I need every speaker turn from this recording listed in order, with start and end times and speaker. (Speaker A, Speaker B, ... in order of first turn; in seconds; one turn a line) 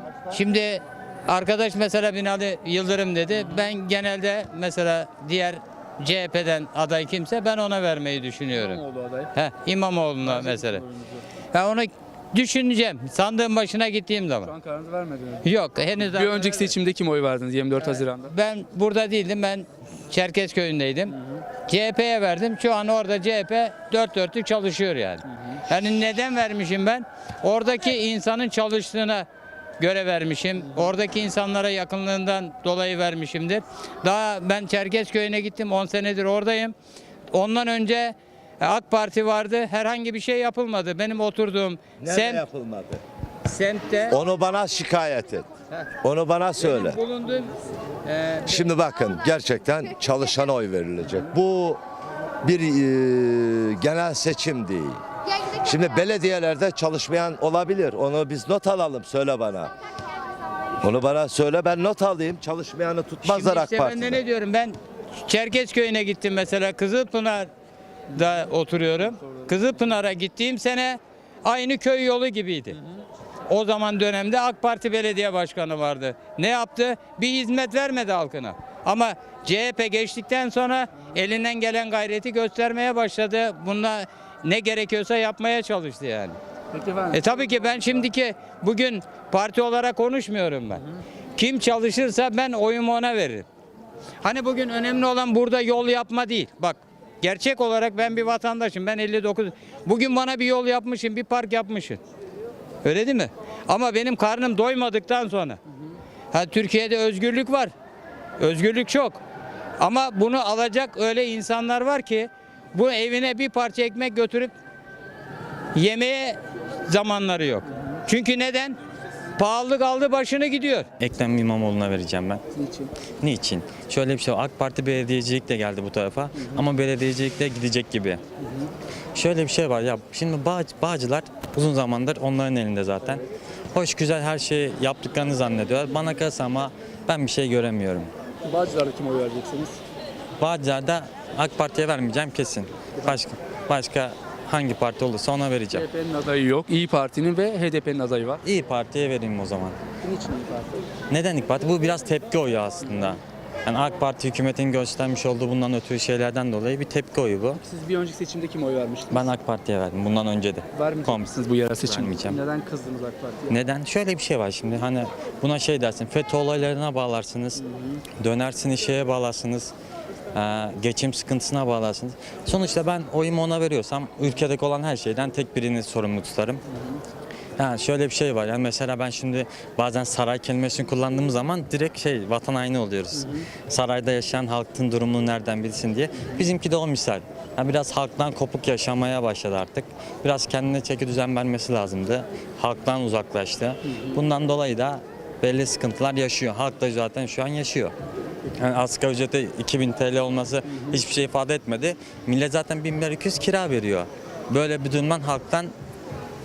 Speaker A: 0.2-8.8
Speaker B: 3.3-3.7
Speaker B: 8.5-9.3
Speaker A: 9.3-10.8
Speaker B: 10.2-11.2
Speaker A: 11.5-14.5
Speaker B: 14.4-15.5
Speaker A: 15.4-16.7
Speaker B: 16.0-18.3
Speaker A: 17.8-29.3
Speaker B: 21.1-21.4
Speaker A: 29.8-36.7
Speaker A: 37.3-42.4
Speaker C: 42.0-43.0
Speaker A: 43.4-44.2
Speaker C: 44.1-45.5
Speaker C: 46.0-47.0
Speaker A: 46.6-48.6
Speaker C: 48.5-51.8
Speaker C: 52.4-55.0
Speaker C: 55.6-59.7
Speaker C: 60.8-64.2
Speaker A: 63.2-67.5
Speaker A: 68.1-72.8
Speaker B: 68.1-68.4
Speaker B: 69.0-70.1
Speaker A: 73.5-86.4
Speaker B: 86.7-88.1
Speaker A: 87.1-90.8
Speaker A: 91.3-93.5
Speaker A: 94.2-102.0
Speaker A: 102.8-105.6
Speaker A: 106.3-107.7
Speaker A: 108.4-109.2
Speaker A: 109.8-114.5
Speaker A: 115.7-118.8
Speaker A: 119.4-120.9
Speaker D: 121.0-122.4
Speaker B: 122.5-122.9
Speaker D: 123.2-128.2
Speaker B: 128.4-128.7
Speaker D: 129.1-138.1
Speaker B: 138.4-139.8
Speaker D: 140.4-145.8
Speaker B: 145.7-148.4
Speaker D: 148.4-149.8
Speaker B: 150.0-150.8
Speaker D: 151.1-157.6
Speaker B: 152.8-153.2
Speaker B: 157.5-159.3
Speaker D: 159.1-162.4
Speaker B: 160.7-163.6
Speaker D: 163.5-167.6
Speaker B: 167.6-168.0
Speaker D: 168.2-169.7
Speaker D: 170.3-176.6
Speaker B: 176.7-177.0
Speaker D: 177.6-197.9
Speaker B: 183.1-183.4
Speaker B: 193.9-194.2
Speaker D: 198.5-205.7
Speaker B: 200.7-201.0